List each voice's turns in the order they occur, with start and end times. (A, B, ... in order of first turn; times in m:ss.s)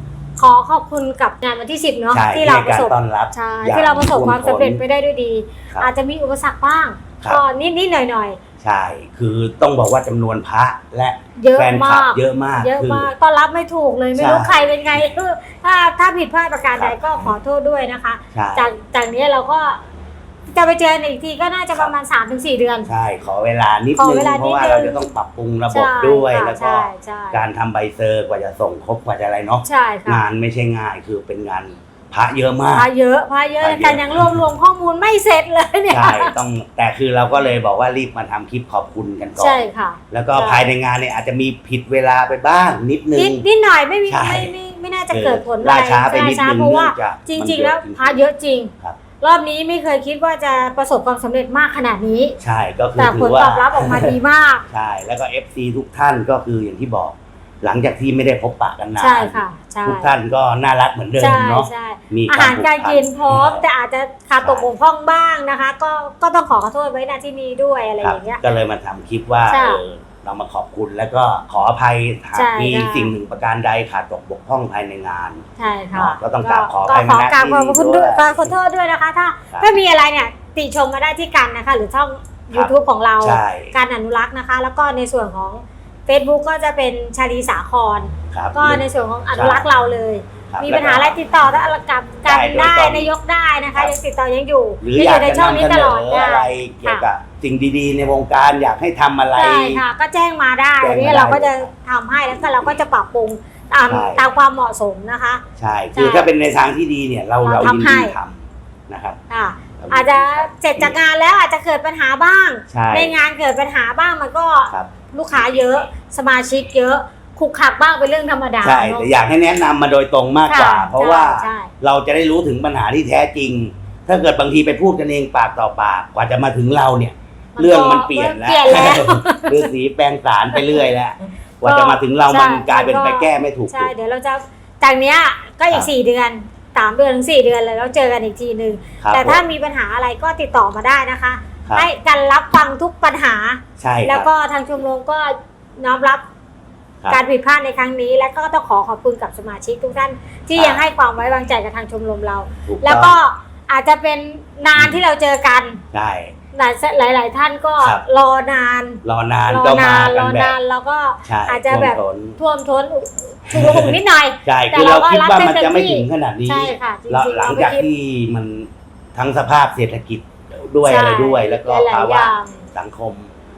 0:00.4-0:08.4 A
0:02.1-0:04.8 B
0:08.6-0:13.1 B
0:11.4-0:19.8 A
0:14.1-0:15.1 B
0:16.8-0:17.3 B
0:18.3-0:18.7 B
0:20.5-0:22.9 A
0:22.9-0:32.9 B
0:24.0-0:25.0 A
0:25.7-0:27.4 A
0:29.6-0:30.2 A
0:32.7-0:36.3 A
0:33.6-0:34.4 B
0:35.9-0:43.4 B
0:39.4-0:40.6 A
0:43.1-0:52.4 A
0:44.1-0:44.5 B
0:45.1-0:48.2 B
0:52.4-0:54.1 B
0:53.0-0:54.6 A
0:54.7-1:03.6 B
0:59.0-1:00.1 A
1:01.2-1:08.4 A
1:04.4-1:04.7 B
1:08.0-1:15.4 B
1:09.5-1:09.8 A
1:12.3-1:13.1 A
1:15.6-1:37.0 A
1:15.9-1:18.5 B
1:22.5-1:23.7 B
1:28.3-1:29.6 B
1:30.5-1:31.6 B
1:32.2-1:33.1 B
1:34.8-1:39.8 B
1:39.3-1:45.4 A
1:40.8-1:41.7 B
1:42.4-1:42.8 B
1:43.9-1:44.2 B
1:45.6-1:49.2 B
1:45.9-1:46.3 A
1:47.4-1:48.1 A
1:49.3-1:59.1 A
1:49.8-1:51.0 B
1:52.7-1:53.2 B
1:54.7-1:55.9 B
1:58.6-2:13.9 B
2:00.5-2:01.7 A
2:07.6-2:09.7 A
2:10.5-2:10.8 A
2:11.6-2:26.2 A
2:19.0-2:19.4 B
2:23.8-2:24.3 B
2:27.1-2:35.8 A
2:30.5-2:30.8 B
2:32.6-2:33.2 B
2:34.7-2:35.0 B
2:35.9-2:36.3 B
2:36.5-2:47.9 A
2:39.0-2:40.6 B
2:41.2-2:42.4 B
2:43.5-2:53.3 B
2:50.8-2:52.6 A